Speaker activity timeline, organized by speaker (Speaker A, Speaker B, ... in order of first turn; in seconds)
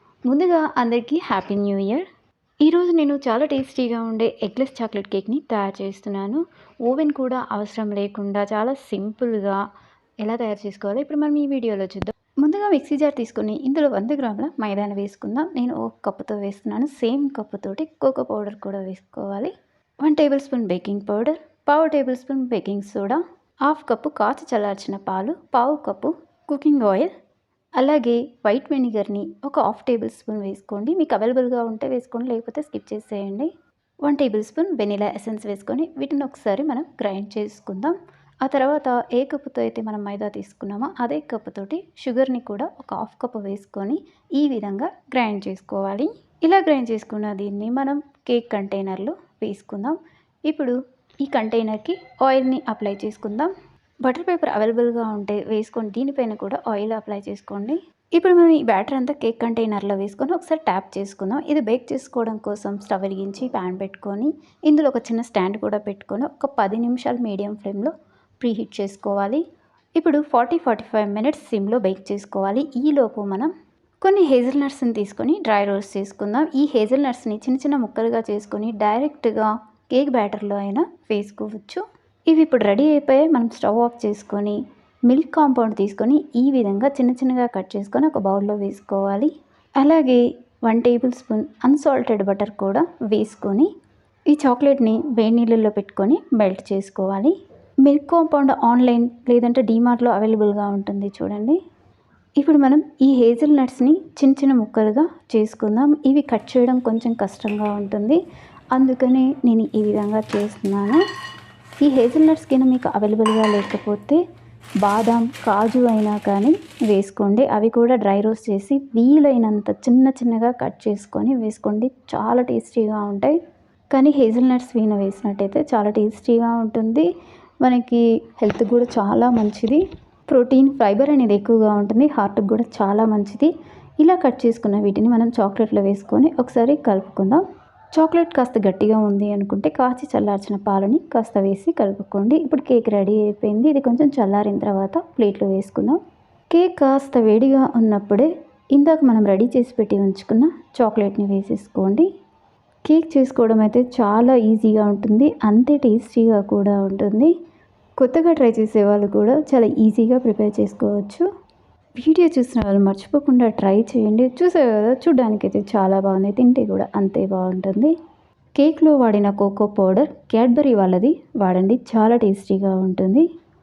Speaker A: 0.3-2.0, 2.6-9.6, 10.2-19.5, 20.0-27.1, 27.8-33.5, 34.1-53.5, 54.0-69.4, 70.0-73.5, 74.0-93.7, 94.3-97.3, 97.8-101.6, 102.4-108.2, 108.7-111.0, 111.8-114.2, 114.8-123.4, 123.9-127.1, 127.6-129.8, 130.3-133.5, 134.0-137.4, 137.9-146.0, 146.5-152.1, 152.9-157.3, 158.0-161.2, 162.0-167.9, 168.6-173.3